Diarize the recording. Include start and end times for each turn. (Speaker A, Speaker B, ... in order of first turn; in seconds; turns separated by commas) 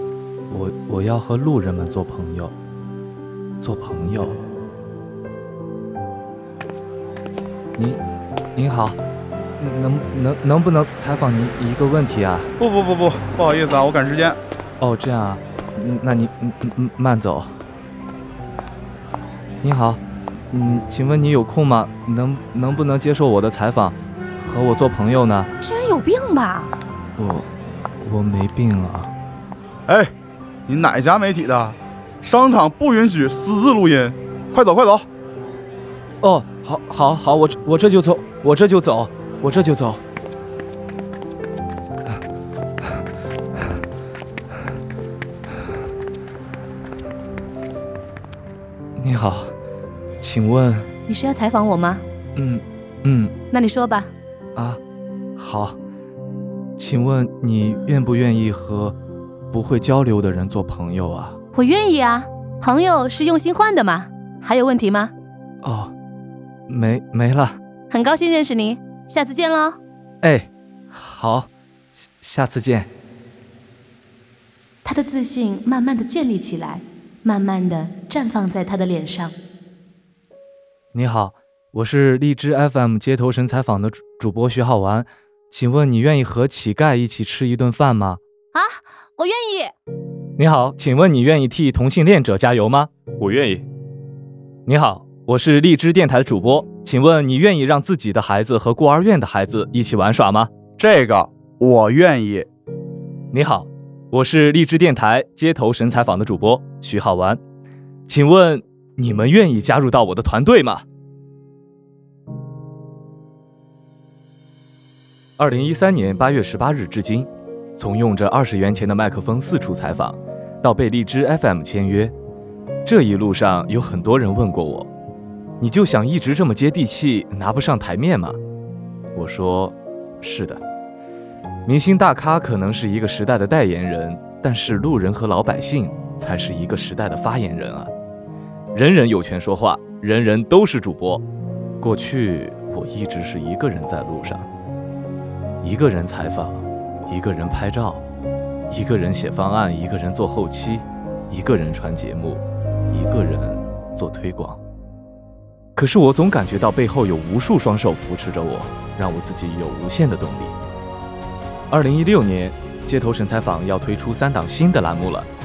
Speaker A: 0.5-2.5, Speaker A: 3.6-4.4, Speaker A: 8.6-9.0, Speaker A: 9.6-12.5, Speaker B: 12.6-14.4, Speaker A: 14.8-17.5, Speaker A: 19.6-25.5, Speaker C: 25.6-26.7, Speaker A: 27.2-27.5, Speaker A: 28.0-29.1, Speaker B: 29.9-30.1, Speaker B: 30.7-35.1, Speaker A: 36.2-40.0, Speaker A: 49.0-49.5, Speaker A: 50.2-50.9, Speaker C: 51.1-52.0, Speaker A: 52.4-53.4, Speaker C: 53.5-54.1, Speaker A: 55.4-55.8, Speaker A: 56.8-59.0, Speaker A: 59.5-61.4, Speaker C: 61.5-65.1, Speaker A: 65.6-65.9, Speaker A: 66.7-67.6, Speaker C: 67.9-69.8, Speaker A: 70.2-71.5, Speaker A: 72.2-72.9, Speaker C: 74.8-79.3, Speaker A: 80.9-88.2, Speaker C: 88.5-89.7, Speaker A: 90.4-93.7, Speaker A: 94.7-100.5, Speaker B: 100.8-102.5, Speaker A: 103.3-107.4, Speaker A: 108.1-110.8, Speaker A: 115.4-122.1, Speaker A: 122.8-124.9, Speaker A: 125.6-128.4, Speaker A: 129.2-130.6, Speaker A: 131.7-137.9, Speaker A: 138.7-141.2, Speaker A: 141.8-144.5, Speaker A: 145.6-148.0, Speaker A: 148.7-154.6, Speaker A: 155.8-160.6, Speaker A: 161.7-165.3